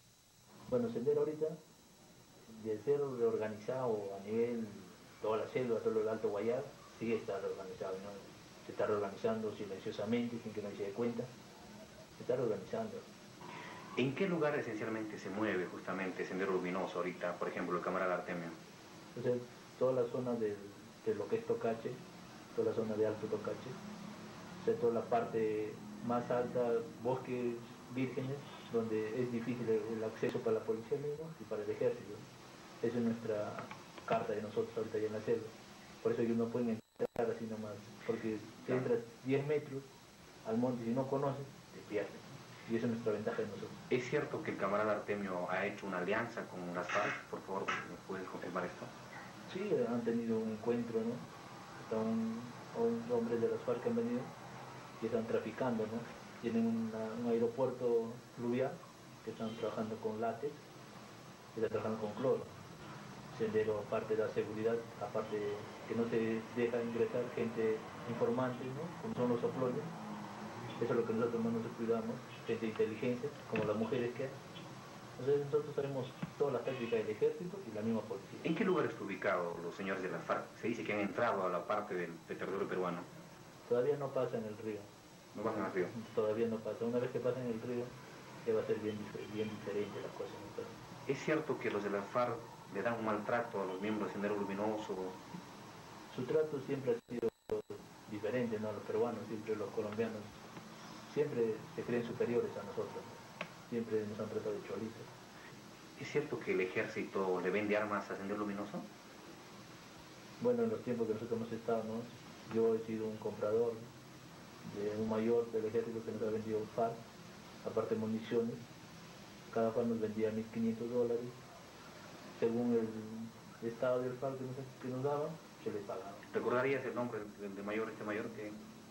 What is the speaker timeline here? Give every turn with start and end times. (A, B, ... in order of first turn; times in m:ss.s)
0:00.7-0:01.6 A
0:02.5-0:11.3 A
0:12.2-0:13.0 A
0:14.0-0:18.6 B
0:19.1-0:22.0 A
0:22.5-0:23.8 A
0:24.6-0:32.2 A
0:32.8-0:39.9 A
0:40.4-0:43.8 A
0:43.9-0:48.9 B
0:49.5-0:51.2 A
0:51.8-0:54.3 A
0:55.0-1:00.6 A
1:01.5-1:02.5 A
1:03.3-1:09.9 A
1:10.8-1:14.4 A
1:15.2-1:18.5 A
1:18.4-1:23.1 B
1:23.6-1:24.9 A
1:25.3-1:25.9 B
1:25.5-1:27.9 A
1:28.4-1:30.7 A
1:31.0-1:35.2 B
1:36.1-1:40.4 A
1:41.0-1:45.1 A
1:46.0-1:48.9 B
1:50.4-1:53.8 A
1:54.6-1:57.0 A
1:57.6-1:58.6 A
1:59.5-2:01.4 A
2:02.3-2:06.2 A
2:06.3-2:08.6 B